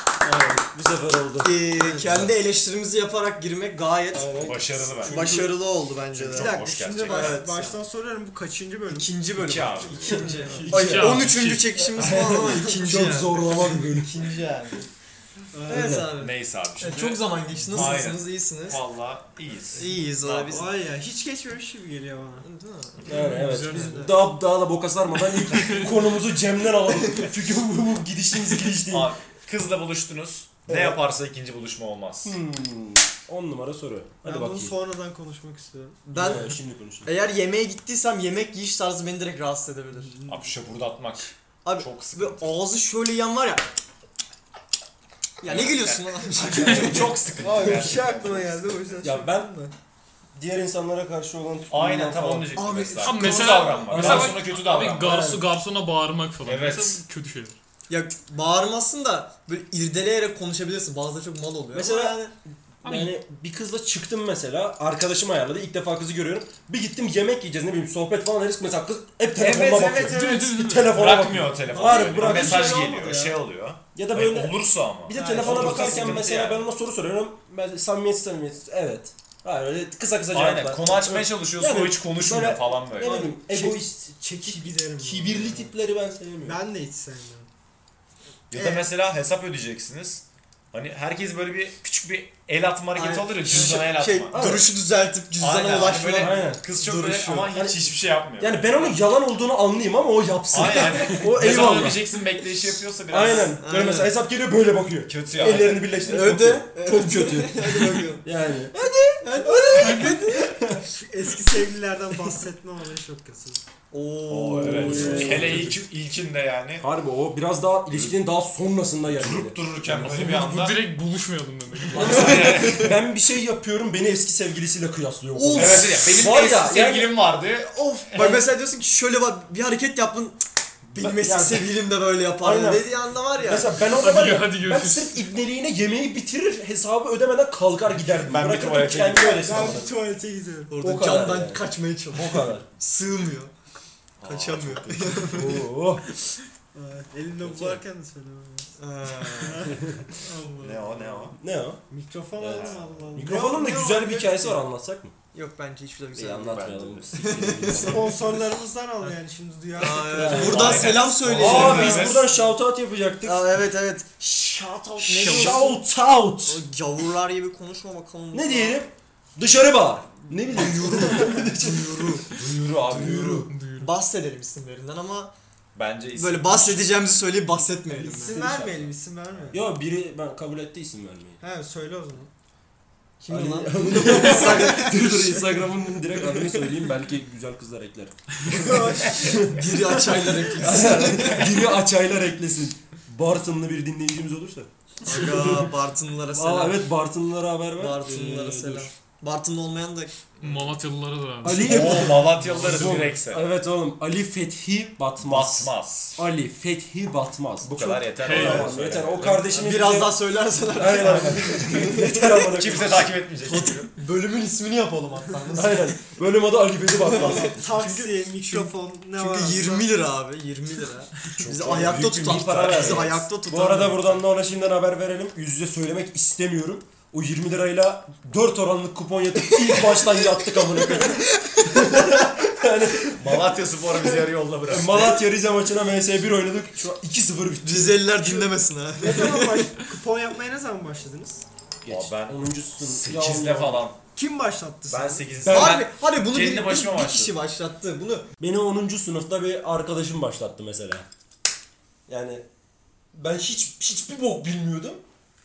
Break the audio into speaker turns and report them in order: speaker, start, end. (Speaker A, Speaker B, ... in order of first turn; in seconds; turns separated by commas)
Speaker A: 0.2-2.3, Speaker B: 1.4-4.4, Speaker C: 1.8-2.0, Speaker A: 4.1-5.5, Speaker D: 4.4-5.3, Speaker B: 5.0-7.8, Speaker D: 6.1-7.3, Speaker C: 6.3-9.1, Speaker B: 8.8-14.9, Speaker D: 9.3-10.3, Speaker A: 10.1-11.2, Speaker C: 10.1-10.7, Speaker E: 10.4-11.7, Speaker A: 11.8-14.2, Speaker C: 12.4-12.8, Speaker C: 15.5-16.0, Speaker B: 15.7-18.8, Speaker A: 15.7-16.1, Speaker D: 16.1-20.6, Speaker B: 19.7-20.7, Speaker C: 20.5-22.5, Speaker B: 22.4-24.1, Speaker A: 23.1-29.1, Speaker C: 23.1-23.5, Speaker E: 23.2-24.0, Speaker E: 25.4-25.9, Speaker D: 28.9-32.4, Speaker A: 30.7-31.0, Speaker A: 32.2-34.8, Speaker C: 34.2-36.0, Speaker B: 36.0-40.2, Speaker A: 36.1-37.1, Speaker C: 40.0-40.4, Speaker D: 40.2-42.6, Speaker B: 41.6-43.6, Speaker B: 45.4-47.7, Speaker D: 45.4-48.8, Speaker C: 47.4-49.7, Speaker A: 49.0-49.5, Speaker A: 50.3-52.5, Speaker D: 51.7-55.2, Speaker B: 52.5-54.2, Speaker E: 53.0-57.6, Speaker A: 53.9-54.4, Speaker A: 55.0-55.5, Speaker D: 56.4-57.0, Speaker B: 57.9-62.3, Speaker A: 61.7-62.2, Speaker E: 62.8-63.1, Speaker A: 62.8-73.1, Speaker C: 69.3-70.8, Speaker E: 70.0-70.9, Speaker D: 70.8-76.6, Speaker B: 71.8-73.3, Speaker A: 73.9-86.6, Speaker C: 75.1-76.2, Speaker D: 80.3-83.3, Speaker C: 83.0-85.7, Speaker C: 86.4-87.5, Speaker D: 88.5-94.5, Speaker C: 88.5-88.9, Speaker B: 92.9-97.5, Speaker A: 93.5-94.7, Speaker D: 95.3-98.8, Speaker A: 96.0-96.6, Speaker A: 97.5-97.9, Speaker A: 98.4-102.0, Speaker D: 100.5-103.6, Speaker B: 101.0-101.3, Speaker A: 103.1-110.8, Speaker B: 103.3-104.1, Speaker D: 105.1-106.0, Speaker B: 105.7-108.2, Speaker B: 109.2-110.4, Speaker E: 109.8-110.2, Speaker C: 109.8-113.6, Speaker B: 113.9-115.2, Speaker D: 114.3-116.8, Speaker A: 114.5-115.8, Speaker C: 114.8-115.6, Speaker A: 116.8-120.1, Speaker D: 117.9-118.2, Speaker D: 119.0-120.8, Speaker E: 119.9-122.5, Speaker B: 121.9-122.9, Speaker A: 121.9-127.1, Speaker D: 122.2-122.8, Speaker B: 125.3-126.1, Speaker D: 125.5-128.5, Speaker B: 127.9-133.7, Speaker A: 131.0-131.7, Speaker A: 132.4-139.9, Speaker E: 133.8-135.3, Speaker D: 137.9-139.9, Speaker C: 139.2-140.7, Speaker B: 140.7-143.5, Speaker A: 140.8-142.6, Speaker D: 144.2-145.4, Speaker B: 144.2-145.7, Speaker A: 145.3-146.1, Speaker C: 146.7-148.7, Speaker A: 147.4-147.8, Speaker B: 148.8-150.5, Speaker C: 149.3-151.1, Speaker D: 150.6-151.4, Speaker A: 151.3-151.8, Speaker C: 151.9-154.6, Speaker A: 152.4-155.1, Speaker D: 152.5-153.1, Speaker B: 155.3-158.1, Speaker A: 156.1-158.2, Speaker D: 156.5-157.3, Speaker C: 157.8-160.8, Speaker B: 159.8-162.2, Speaker A: 160.1-163.5, Speaker D: 160.3-162.3, Speaker C: 161.4-162.1, Speaker B: 163.2-165.8, Speaker A: 165.1-166.6, Speaker B: 166.4-168.8, Speaker A: 168.3-172.0, Speaker B: 170.5-172.4, Speaker D: 172.3-173.5, Speaker A: 172.8-173.5, Speaker E: 173.5-173.9, Speaker B: 173.6-175.3, Speaker D: 175.7-177.0, Speaker B: 176.1-178.4, Speaker A: 177.9-178.9, Speaker C: 178.2-179.6, Speaker A: 179.5-181.4, Speaker C: 181.4-182.3, Speaker B: 183.2-186.7, Speaker A: 183.3-189.4, Speaker C: 184.1-185.0, Speaker C: 188.5-189.7, Speaker B: 189.3-191.5, Speaker A: 190.4-195.7, Speaker D: 190.7-191.4, Speaker B: 195.0-196.9, Speaker A: 196.3-198.9, Speaker B: 197.8-200.1, Speaker E: 200.4-203.0, Speaker A: 201.4-210.2, Speaker B: 201.4-202.0, Speaker D: 201.6-203.4, Speaker D: 205.2-206.2, Speaker D: 207.6-209.4, Speaker E: 208.2-208.7, Speaker B: 209.5-212.6, Speaker A: 210.7-213.1, Speaker D: 211.0-213.9, Speaker B: 213.4-216.0, Speaker A: 215.5-217.6, Speaker B: 216.9-224.2, Speaker C: 217.1-219.9, Speaker D: 221.3-223.3, Speaker A: 222.2-233.3, Speaker B: 229.4-231.2, Speaker D: 233.2-235.2, Speaker A: 234.7-238.0, Speaker B: 237.6-239.7, Speaker C: 238.2-241.4, Speaker A: 241.8-243.8, Speaker D: 241.9-244.0, Speaker C: 244.1-245.3, Speaker D: 244.9-247.4, Speaker B: 245.4-248.2, Speaker A: 245.4-245.7, Speaker A: 248.4-251.1, Speaker A: 252.1-252.4, Speaker A: 253.1-255.0